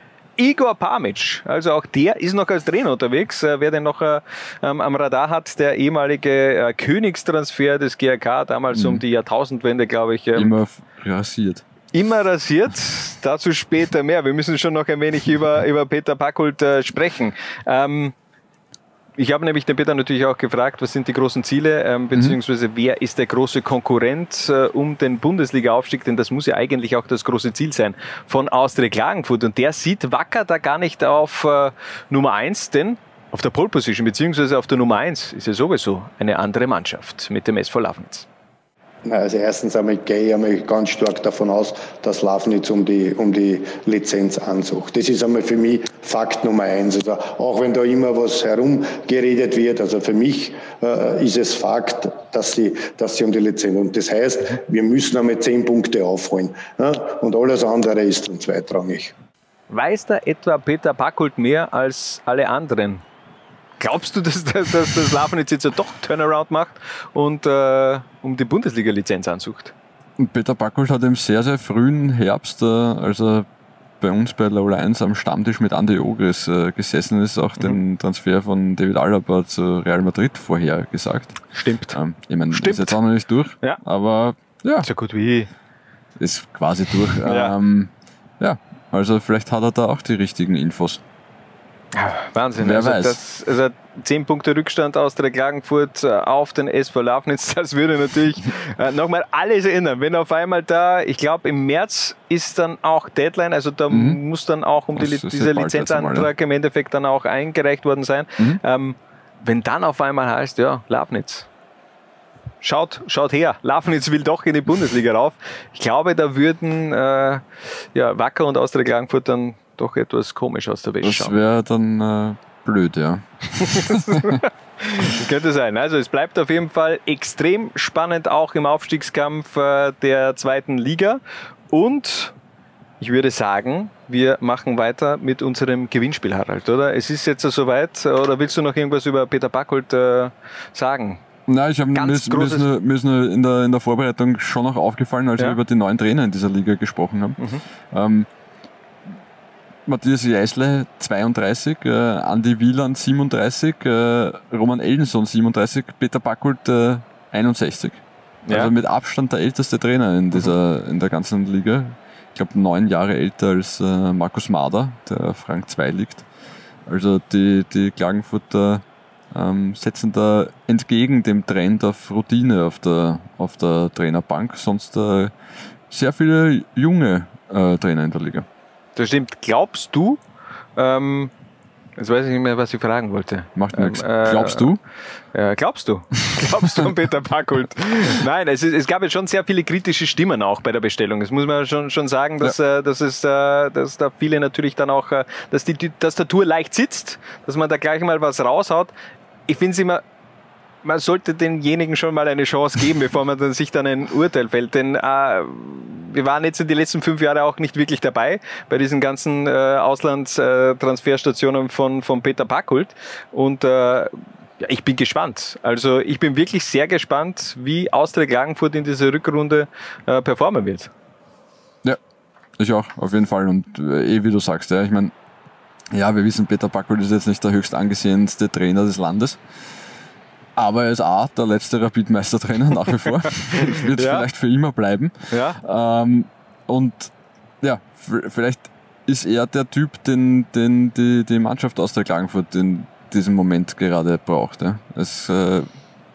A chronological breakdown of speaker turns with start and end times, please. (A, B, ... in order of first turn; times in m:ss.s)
0:00.4-0:10.5 A
0:08.7-0:09.0 B
0:10.3-0:11.6 B
0:11.9-0:18.1 A
0:19.2-0:38.2 A
0:39.0-0:59.1 C
0:59.7-1:03.0 A
1:03.8-1:09.7 A
1:10.2-1:13.4 B
1:14.0-1:21.4 B
1:21.5-1:22.0 A
1:21.9-1:24.9 B
1:22.5-1:23.0 A
1:24.8-1:25.5 A
1:26.2-1:31.0 B
1:27.2-1:27.5 A
1:31.9-1:51.5 A
1:32.6-1:33.2 B
1:43.9-1:44.2 B
1:44.9-1:46.3 B
1:52.6-1:57.4 A
1:57.9-2:01.4 A
2:01.0-2:04.4 B
2:03.6-2:12.3 A
2:13.0-2:21.2 A
2:21.5-2:27.4 B
2:21.9-2:22.7 A
2:27.9-2:28.3 B
2:29.9-2:46.2 B
2:46.8-2:55.3 B
2:55.9-2:58.4 B
2:59.0-3:00.2 A
3:00.8-3:01.3 A
3:02.0-3:04.7 A
3:03.5-3:04.8 B
3:05.3-3:18.9 A
3:19.5-3:20.0 A
3:20.8-3:40.9 A
3:42.6-3:45.1 B
3:45.9-3:49.4 B
3:50.6-4:05.7 B
3:53.5-3:54.2 A
3:55.3-3:55.6 A